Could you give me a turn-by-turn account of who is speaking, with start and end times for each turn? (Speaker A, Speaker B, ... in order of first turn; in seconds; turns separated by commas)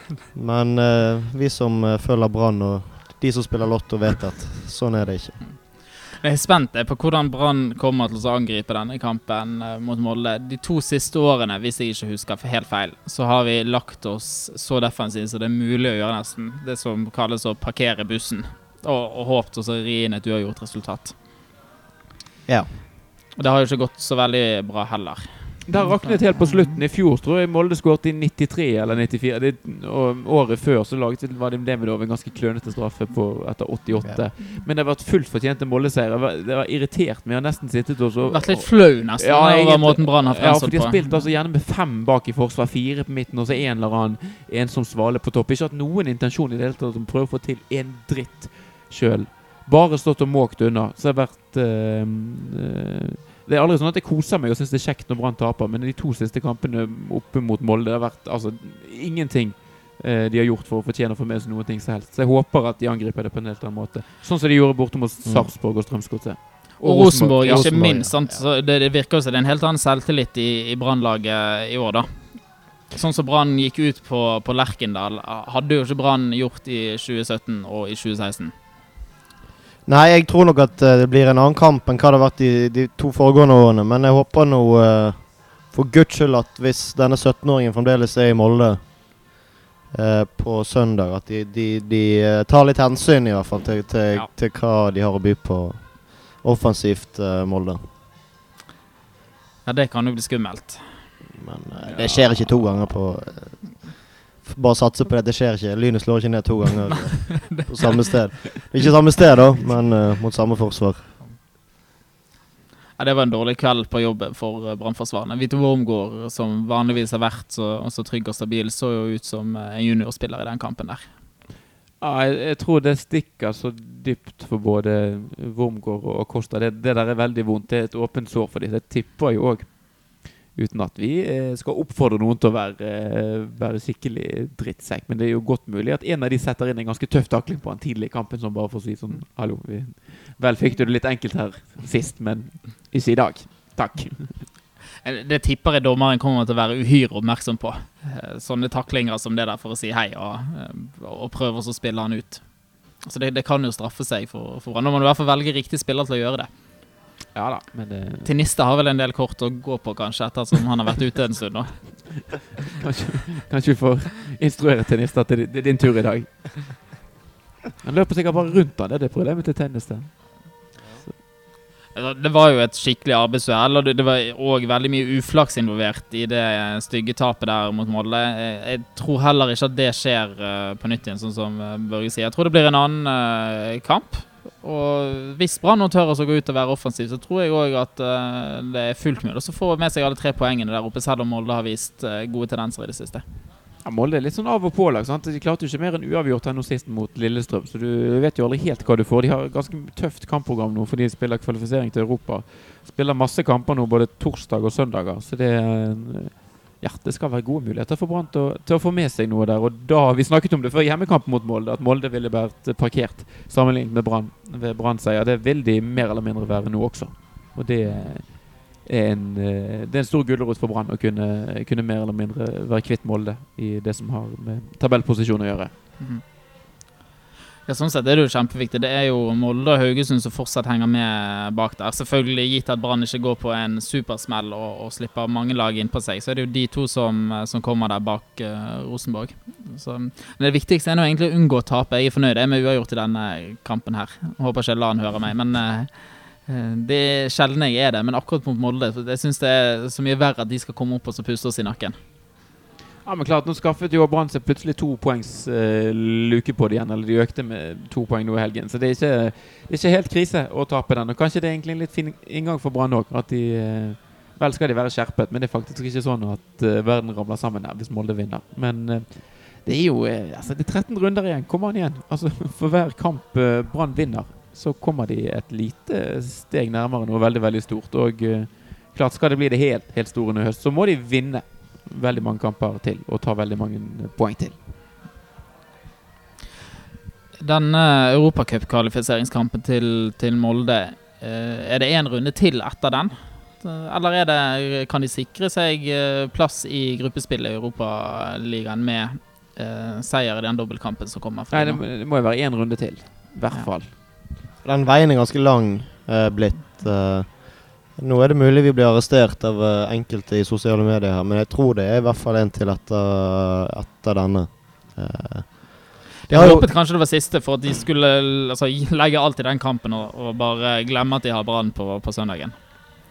Speaker A: 0.3-5.4, Speaker B: 5.5-21.2, Speaker A: 22.4-22.8, Speaker B: 23.3-26.8, Speaker C: 25.6-68.1, Speaker B: 38.3-41.2, Speaker A: 65.2-65.5, Speaker B: 66.8-78.5, Speaker A: 67.4-68.4, Speaker A: 79.8-89.3, Speaker A: 89.9-97.8, Speaker B: 99.6-101.1, Speaker A: 101.3-111.2, Speaker C: 101.9-102.2, Speaker B: 107.5-108.4, Speaker B: 113.0-121.1, Speaker C: 122.0-144.5, Speaker B: 145.0-156.5, Speaker C: 157.3-158.3, Speaker B: 158.2-162.4, Speaker C: 162.7-167.0, Speaker C: 167.8-171.2, Speaker B: 171.9-193.2, Speaker C: 193.8-225.7, Speaker B: 217.8-218.1, Speaker B: 226.0-226.2, Speaker B: 227.7-252.0, Speaker C: 253.0-284.6, Speaker B: 287.4-301.8, Speaker C: 301.5-303.9, Speaker A: 304.6-316.7, Speaker B: 316.3-322.6